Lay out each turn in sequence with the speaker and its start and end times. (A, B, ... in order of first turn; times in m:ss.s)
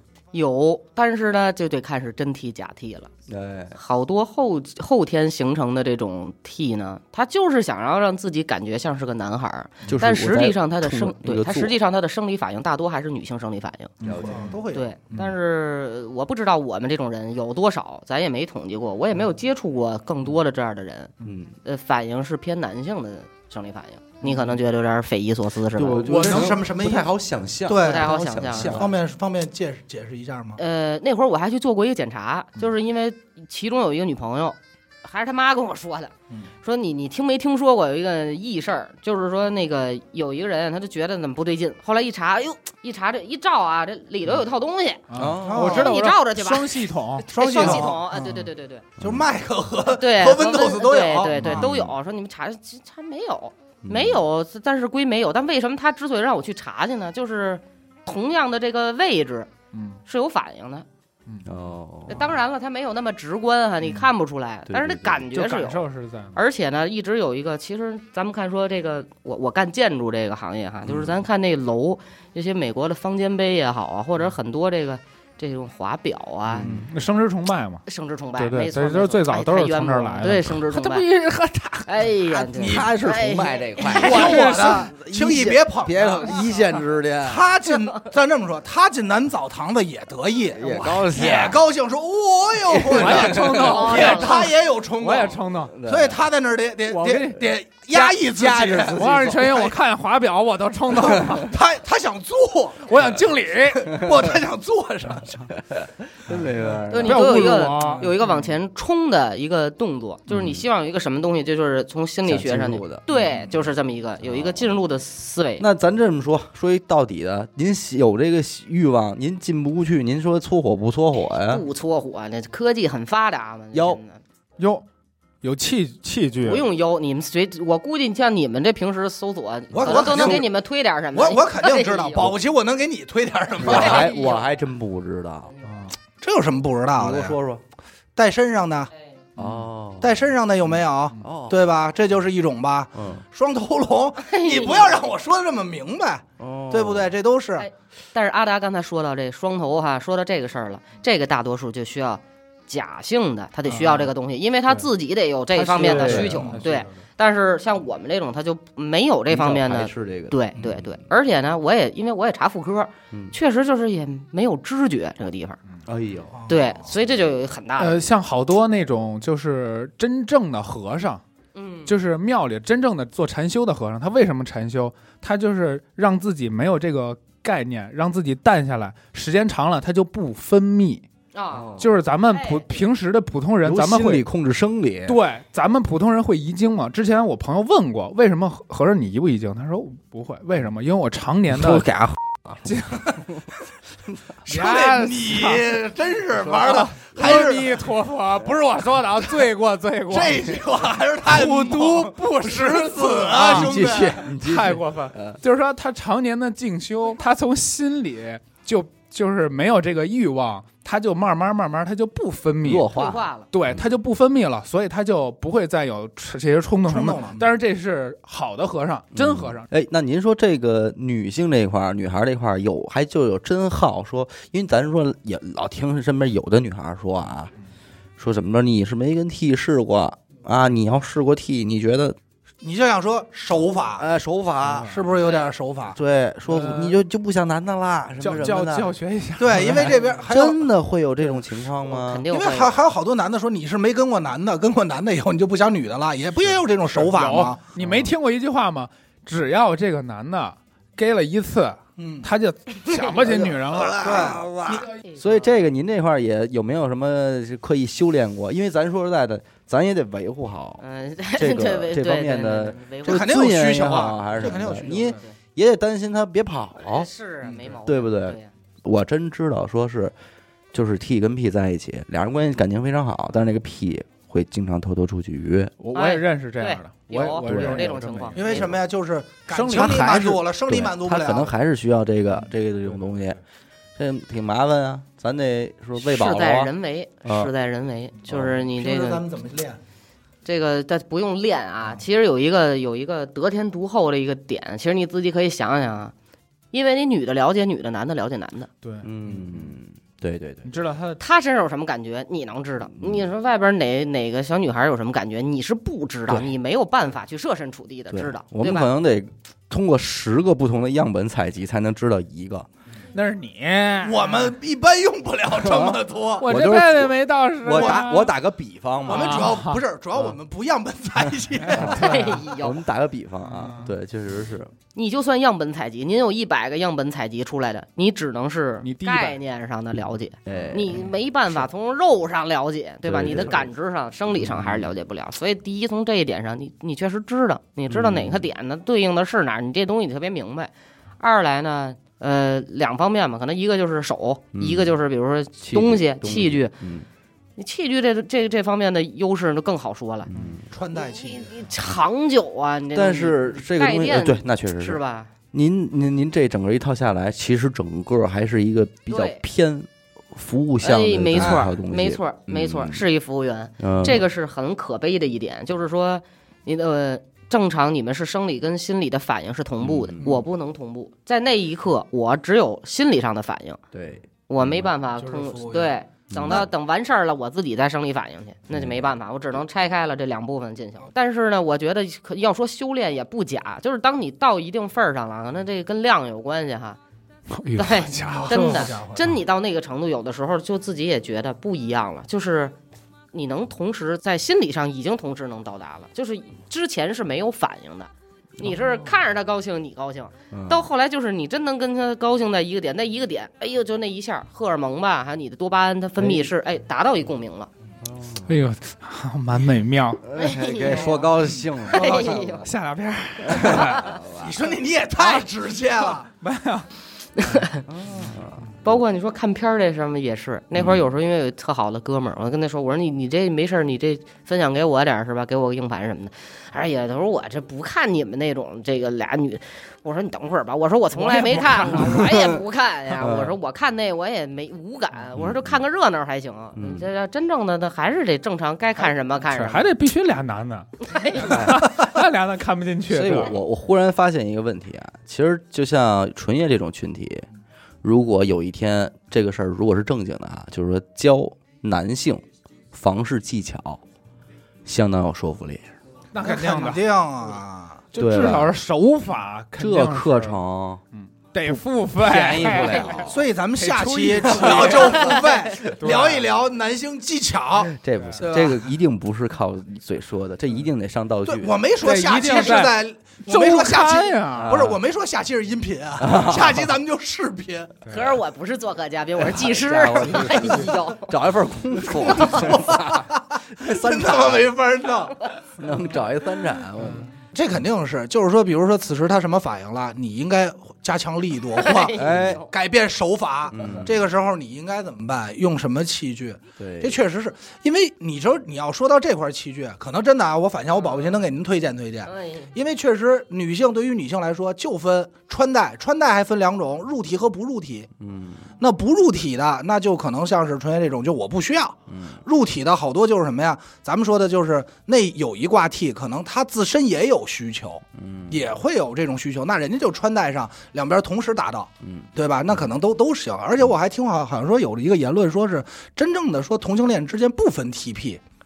0:00.3-0:03.1 A
0:03.3-0:03.8 B
0:03.8-0:14.0 A
0:09.9-0:11.8 B
0:14.0-0:14.6 B
0:14.0-0:14.5 C
0:14.1-0:14.9 D
0:14.7-0:21.1 A
0:21.2-0:21.6 B
0:21.6-0:26.1 A
0:25.7-0:29.0 B
0:26.0-0:27.1 D
0:26.1-0:26.6 C
0:27.7-0:30.6 D
0:27.8-0:28.9 A
0:30.6-0:36.1 A
0:36.6-0:48.9 A
0:45.1-0:47.3 C
0:45.1-0:45.8 B
0:45.4-0:45.9 D
0:47.3-0:48.4 D
0:49.0-0:49.3 B
0:49.0-0:51.7 D
0:50.0-0:59.5 A
0:51.4-0:52.0 B
0:53.8-0:54.2 B
0:59.7-1:00.0 C
1:00.1-1:00.9 A
1:01.4-1:02.3 B
1:02.1-1:16.7 A
1:04.7-1:05.3 B
1:05.3-1:06.4 C
1:10.9-1:11.2 B
1:16.5-1:17.8 C
1:16.6-1:16.9 B
1:17.9-1:21.1 A
1:18.4-1:22.0 C
1:21.9-1:24.4 A
1:22.3-1:27.4 B
1:23.9-1:24.9 C
1:23.9-1:26.6 D
1:27.2-1:39.7 D
1:30.5-1:31.6 B
1:30.6-1:31.5 C
1:32.6-1:33.9 B
1:32.9-1:35.7 C
1:33.6-1:34.5 A
1:35.7-1:36.2 B
1:36.9-1:41.6 C
1:38.6-1:39.5 B
1:41.0-1:41.4 B
1:41.1-1:42.9 D
1:42.8-1:44.0 C
1:43.8-1:45.5 D
1:45.5-1:47.4 B
1:46.9-1:55.6 A
1:47.0-1:48.1 C
1:50.3-1:50.7 B
1:52.3-1:53.0 B
1:54.2-1:54.7 B
1:55.6-2:01.6 B
2:01.4-2:04.2 A
2:03.7-2:04.0 B
2:04.6-2:04.8 C
2:05.4-2:06.6 C
2:06.4-2:12.3 A
2:09.7-2:10.5 D
2:09.8-2:10.4 B
2:11.1-2:14.1 D
2:13.6-2:15.5 B
2:13.6-2:14.4 A
2:15.6-2:15.9 C
2:16.2-2:17.4 D
2:17.0-2:17.6 B
2:18.2-2:18.9 D
2:19.4-2:21.7 B
2:20.0-2:27.7 D
2:23.0-2:23.2 B
2:24.2-2:25.0 A
2:26.4-2:27.2 B
2:27.6-2:45.6 A
2:33.7-2:34.1 C
2:35.6-2:36.6 B
2:35.8-2:37.0 C
2:36.1-2:36.5 D
2:39.3-2:40.8 B
2:45.9-2:46.4 B
2:46.3-2:46.6 D
2:46.5-2:48.0 A
2:47.8-2:51.2 C
2:51.6-2:51.9 A
2:51.9-3:01.0 C
3:01.3-3:02.7 A
3:01.6-3:01.9 B
3:01.8-3:04.2 C
3:03.6-3:05.2 B
3:05.1-3:11.9 C
3:11.5-3:12.6 B
3:12.6-3:13.1 C
3:14.5-3:15.7 C
3:14.5-3:17.8 D
3:16.6-3:20.6 C
3:20.1-3:24.2 D
3:21.2-3:32.9 C
3:23.4-3:25.4 B
3:32.6-3:33.9 B
3:32.9-3:33.5 A
3:33.5-3:39.7 C
3:36.9-3:37.5 D
3:39.2-3:47.5 B
3:48.2-3:52.2 B
3:52.6-3:54.1 D
3:54.0-3:54.9 B
3:54.6-3:55.0 C
3:54.7-3:56.0 D
3:55.9-3:58.9 B
3:56.5-3:57.0 C
3:58.2-4:00.0 C
3:59.4-4:00.7 D
4:00.3-4:02.2 B
4:01.8-4:02.8 A
4:02.3-4:07.6 D
4:06.4-4:14.8 C
4:07.8-4:08.1 B
4:12.0-4:12.3 D
4:13.2-4:14.9 D
4:13.7-4:20.8 B
4:15.0-4:15.5 A
4:20.8-4:23.4 A
4:21.3-4:27.1 B
4:23.0-4:25.2 D
4:24.7-4:25.3 A
4:26.8-4:28.5 A
4:27.8-4:30.1 B
4:30.7-4:35.7 B
4:35.8-4:38.6 C
4:35.9-4:38.7 A
4:37.1-4:38.0 B
4:38.3-4:41.5 D
4:39.5-4:40.4 C
4:40.7-4:43.4 B
4:44.0-4:46.7 B
4:46.0-4:49.2 A
4:47.2-4:47.5 B
4:48.3-4:48.5 B
4:48.4-4:49.8 D
4:50.4-4:56.1 A
4:56.7-4:58.7 A
4:58.8-4:59.7 C
4:59.0-5:00.7 B
5:00.6-5:01.2 C
5:01.2-5:08.9 A
5:03.0-5:03.3 B
5:08.1-5:12.7 B
5:13.1-5:14.5 C
5:14.0-5:16.5 D
5:15.5-5:19.5 B
5:16.4-5:18.3 C
5:17.7-5:18.1 D
5:19.1-5:22.2 D
5:19.1-5:19.8 C
5:21.6-5:22.3 C
5:21.7-5:24.7 B
5:21.8-5:22.8 A
5:23.5-5:23.9 C
5:24.9-5:46.8 A
5:28.8-5:29.4 C
5:30.4-5:31.0 B
5:33.0-5:33.7 B
5:34.4-5:34.9 B
5:37.9-5:38.5 B
5:44.5-5:45.0 B
5:45.6-5:47.1 B
5:47.6-5:50.3 A
5:50.3-5:50.7 B
5:50.4-5:50.6 C
5:50.7-5:51.6 D
5:50.9-5:55.3 A
5:52.9-5:55.0 B
5:55.5-6:03.0 B
5:59.1-5:59.4 A
6:00.8-6:13.8 A
6:01.4-6:01.6 D
6:03.8-6:04.3 B
6:09.8-6:10.4 B
6:13.9-6:14.9 B
6:14.5-6:27.0 A
6:15.2-6:16.0 D
6:16.3-6:16.7 B
6:18.7-6:19.1 B
6:27.5-6:28.9 C
6:27.8-6:32.8 A
6:28.3-6:29.4 D
6:33.3-6:47.7 A
6:40.5-6:40.9 B
6:46.2-6:46.5 B
6:48.0-6:48.5 B
6:48.5-6:50.2 C
6:50.2-6:52.7 B
6:50.4-6:51.3 A
6:51.9-6:52.7 A
6:52.6-6:54.1 C
6:53.4-6:54.6 B
6:53.6-6:54.1 A
6:54.4-6:56.3 D
6:55.2-6:56.9 C
6:57.4-6:57.8 A
6:57.9-6:58.9 B
6:58.8-7:19.9 A
7:00.8-7:01.0 B
7:11.2-7:12.3 C
7:13.2-7:13.6 B
7:15.4-7:15.8 B
7:16.8-7:17.1 B
7:19.5-7:23.5 C
7:21.1-7:21.6 A
7:21.5-7:21.9 B
7:23.1-7:27.5 B
7:28.0-7:34.0 B
7:34.8-7:35.9 B
7:36.3-7:37.0 C
7:36.4-7:38.1 D
7:38.1-7:40.6 C
7:38.2-7:38.7 B
7:39.8-7:41.0 B
7:41.1-7:46.5 C
7:41.7-7:43.4 B
7:43.0-7:43.2 A
7:43.2-7:48.9 D
7:44.5-7:45.1 B
7:47.8-7:51.8 B
7:51.5-7:58.0 D
7:52.0-7:54.9 C
7:54.6-7:55.0 B
7:56.2-7:56.9 B
7:58.1-7:58.4 C
7:58.1-8:01.3 A
7:59.4-8:04.8 B
8:00.5-8:00.9 C
8:02.3-8:02.6 A
8:02.3-8:05.5 D
8:05.8-8:07.3 B
8:07.5-8:28.1 D
8:11.8-8:12.7 A
8:12.1-8:12.6 B
8:13.7-8:14.2 B
8:16.8-8:17.2 B
8:22.3-8:22.7 A
8:28.2-8:28.7 B
8:28.8-8:48.4 D
8:32.1-8:32.4 B
8:38.2-8:38.7 B
8:42.0-8:42.3 B